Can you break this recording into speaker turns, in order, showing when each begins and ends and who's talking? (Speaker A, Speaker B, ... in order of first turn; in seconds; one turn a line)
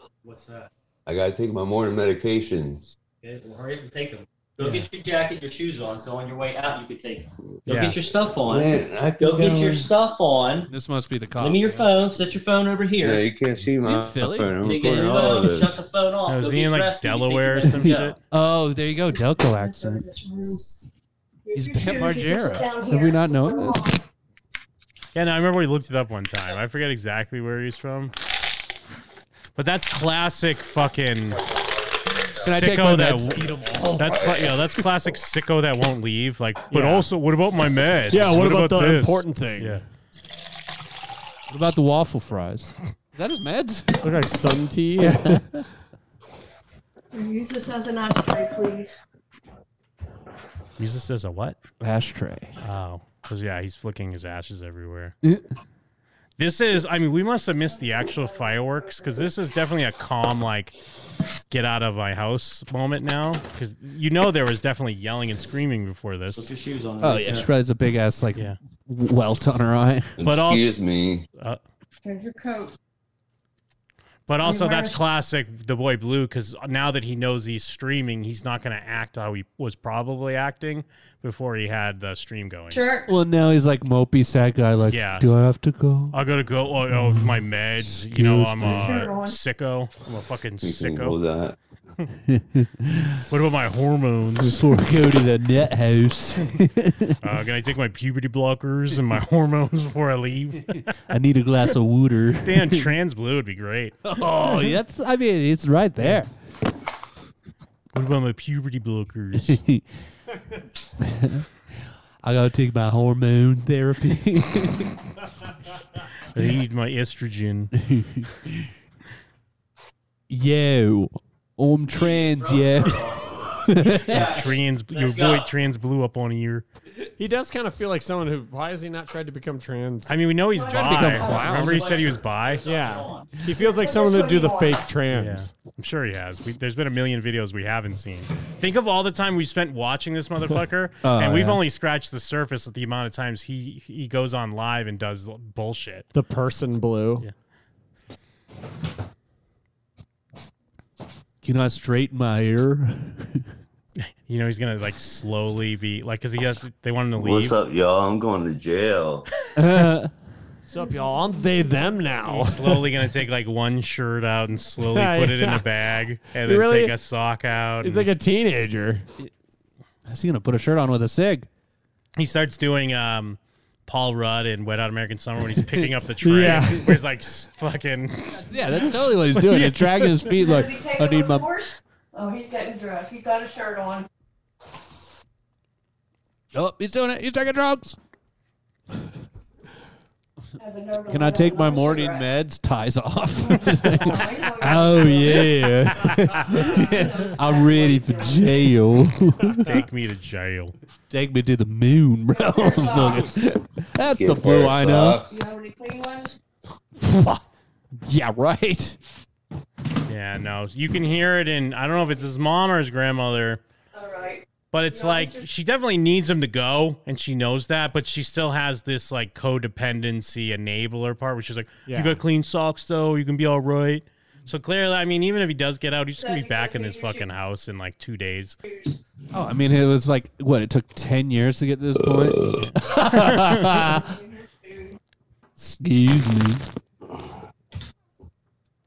Speaker A: 0.2-0.7
Speaker B: 1.1-2.9
Speaker A: 3.2-10.7
Speaker C: 7.7-8.0
Speaker B: 8.4-9.9
Speaker D: 10.7-11.9
Speaker A: 11.4-13.3
Speaker B: 13.0-15.8
Speaker D: 13.8-14.6
Speaker A: 14.6-18.1
Speaker C: 16.3-18.1
Speaker D: 17.6-20.0
Speaker E: 19.1-20.8
Speaker E: 21.5-24.0
Speaker D: 21.5-23.8
Speaker C: 25.1-28.1
Speaker C: 29.6-31.4
Speaker D: 32.4-34.8
Speaker C: 32.4-33.5
Speaker C: 34.0-39.8
Speaker F: 36.7-37.1
Speaker F: 38.1-39.8
Speaker D: 41.5-44.1
Speaker F: 44.0-45.4
Speaker D: 45.0-45.6
Speaker E: 47.1-48.9
Speaker C: 50.8-51.6
Speaker D: 51.8-52.5
Speaker C: 52.6-55.1
Speaker C: 56.4-60.7
Speaker E: 58.0-59.0
Speaker C: 61.5-66.5
Speaker A: 66.3-67.5
Speaker D: 67.0-70.1
Speaker B: 70.2-71.2
Speaker C: 70.2-70.8
Speaker C: 71.3-71.6
Speaker E: 72.0-72.7
Speaker C: 74.3-82.9
Speaker E: 74.4-75.0
Speaker E: 82.7-83.1
Speaker D: 83.1-86.2
Speaker C: 84.9-85.2
Speaker C: 86.1-91.2
Speaker D: 86.9-89.1
Speaker E: 88.7-89.4
Speaker B: 90.6-91.6
Speaker D: 92.3-93.2
Speaker C: 93.3-94.6
Speaker D: 94.4-97.2
Speaker C: 97.2-100.9
Speaker D: 101.1-102.9
Speaker C: 102.4-104.7
Speaker D: 104.0-106.3
Speaker C: 107.9-109.6
Speaker D: 109.4-109.8
Speaker D: 111.0-111.5
Speaker D: 112.2-115.0
Speaker C: 116.3-117.7
Speaker D: 117.8-118.7
Speaker D: 120.3-124.3
Speaker A: 121.9-123.3
Speaker A: 123.8-125.5
Speaker C: 124.1-126.6
Speaker F: 127.2-130.1
Speaker C: 130.1-132.6
Speaker D: 130.7-131.9
Speaker A: 131.4-133.3
Speaker F: 132.6-135.5
Speaker E: 133.6-134.9
Speaker C: 135.1-146.1
Speaker D: 141.0-141.6
Speaker F: 146.1-147.2
Speaker D: 151.4-153.4
Speaker C: 153.9-157.6
Speaker B: 157.2-159.3
Speaker D: 159.6-160.1
Speaker F: 160.7-162.9
Speaker C: 162.2-168.1
Speaker F: 164.8-165.6
Speaker F: 166.4-166.9
Speaker F: 167.8-169.0
Speaker D: 170.1-171.5
Speaker C: 172.2-178.6
Speaker D: 175.6-175.9
Speaker F: 176.2-176.9
Speaker D: 178.5-181.5
Speaker C: 179.4-180.0
Speaker E: 180.3-184.1
Speaker D: 186.5-188.0
Speaker E: 190.6-192.3
Speaker D: 191.1-199.7
Speaker E: 193.4-198.8
Speaker C: 199.6-200.7
Speaker D: 201.1-205.2
Speaker E: 202.3-203.4
Speaker B: 204.0-205.3
Speaker E: 205.2-206.4
Speaker D: 206.9-207.4
Speaker D: 208.0-209.0
Speaker C: 210.1-213.6
Speaker E: 213.9-215.5
Speaker C: 214.7-228.6
Speaker F: 221.9-222.2
Speaker E: 226.2-227.3
Speaker E: 228.6-229.0
Speaker D: 229.3-234.1
Speaker B: 232.0-232.6
Speaker C: 232.6-233.8
Speaker E: 233.8-235.0
Speaker D: 235.6-236.6